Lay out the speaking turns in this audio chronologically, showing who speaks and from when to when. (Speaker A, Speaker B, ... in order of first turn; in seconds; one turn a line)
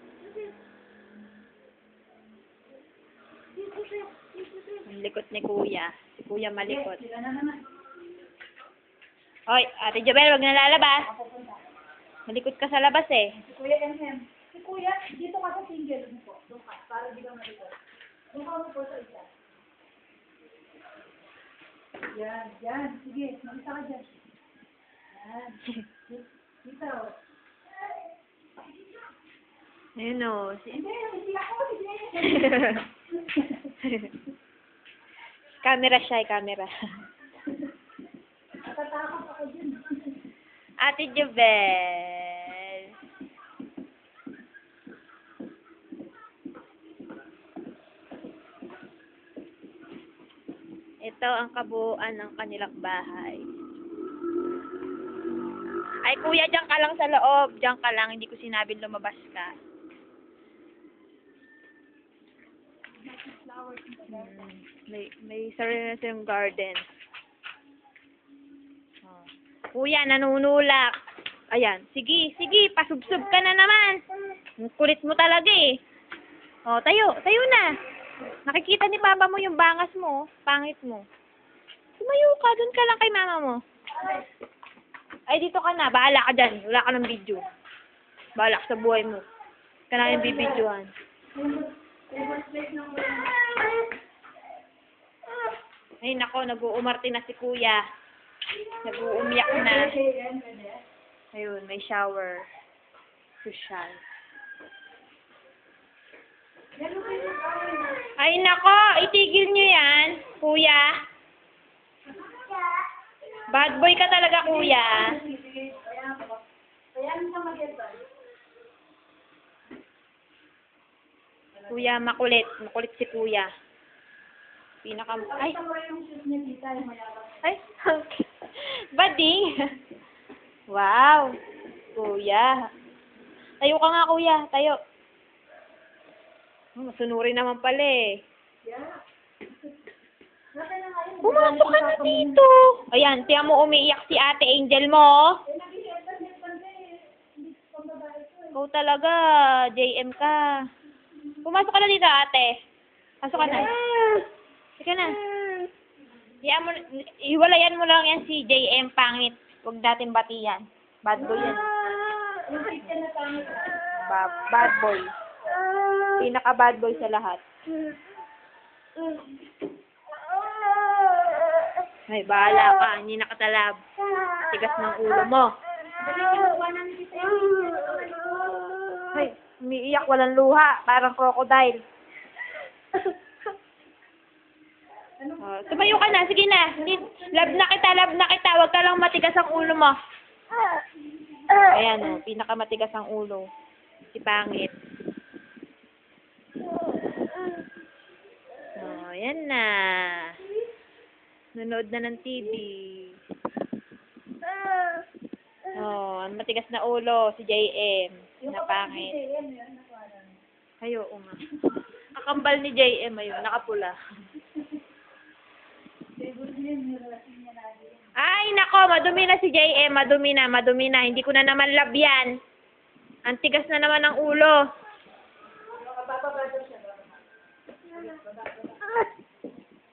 Speaker A: 3.5-4.8
Speaker B: 4.9-7.0
Speaker A: 6.6-7.7
Speaker B: 9.5-11.1
Speaker A: 11.0-11.6
Speaker B: 12.3-13.3
Speaker A: 13.3-17.8
Speaker A: 18.3-19.3
Speaker A: 22.1-24.1
Speaker A: 25.1-27.1
Speaker B: 30.0-30.8
Speaker A: 30.7-32.6
Speaker B: 32.2-32.9
Speaker A: 33.2-33.7
Speaker B: 33.8-34.1
Speaker B: 35.6-36.7
Speaker A: 38.6-40.1
Speaker B: 40.8-42.9
Speaker B: 51.1-53.5
Speaker B: 56.0-59.6
Speaker A: 63.0-64.4
Speaker B: 64.1-66.8
Speaker B: 69.0-70.9
Speaker B: 71.5-74.0
Speaker B: 74.6-75.7
Speaker B: 76.7-77.7
Speaker B: 78.5-81.0
Speaker B: 82.0-83.6
Speaker A: 84.0-84.2
Speaker B: 85.3-87.4
Speaker B: 88.4-89.2
Speaker B: 89.9-90.9
Speaker A: 90.0-90.6
Speaker A: 91.3-93.8
Speaker B: 96.0-97.8
Speaker A: 98.7-100.8
Speaker B: 98.8-100.0
Speaker B: 101.3-102.4
Speaker B: 103.4-104.0
Speaker A: 106.8-108.1
Speaker B: 108.2-110.9
Speaker A: 112.1-112.8
Speaker B: 113.5-115.2
Speaker A: 114.4-116.4
Speaker A: 116.9-118.0
Speaker B: 121.7-123.5
Speaker B: 124.8-125.6
Speaker A: 125.2-127.5
Speaker B: 127.4-129.4
Speaker B: 130.7-131.3
Speaker B: 132.0-132.6
Speaker B: 133.6-134.8
Speaker B: 136.8-138.1
Speaker A: 138.6-139.0
Speaker A: 140.6-142.4
Speaker B: 141.2-145.4
Speaker A: 145.5-148.6
Speaker B: 148.6-150.4
Speaker B: 151.4-152.6
Speaker B: 153.2-153.8
Speaker A: 153.4-154.2
Speaker B: 154.8-155.2
Speaker B: 156.4-161.7
Speaker A: 161.2-161.6
Speaker A: 162.3-163.8
Speaker B: 163.9-165.1
Speaker B: 166.2-167.4
Speaker B: 172.1-173.8
Speaker B: 174.4-175.5
Speaker A: 176.0-178.9
Speaker B: 179.1-181.8
Speaker A: 185.2-187.7
Speaker B: 185.4-190.0
Speaker A: 191.4-191.7
Speaker B: 191.6-193.4
Speaker B: 194.1-194.7
Speaker B: 198.8-200.3
Speaker B: 201.6-203.2
Speaker B: 205.7-209.2
Speaker A: 208.4-210.4
Speaker B: 210.8-211.3
Speaker B: 212.1-214.0
Speaker A: 216.2-218.1
Speaker B: 218.2-222.3
Speaker B: 223.3-224.6
Speaker A: 225.7-227.2
Speaker A: 227.9-228.9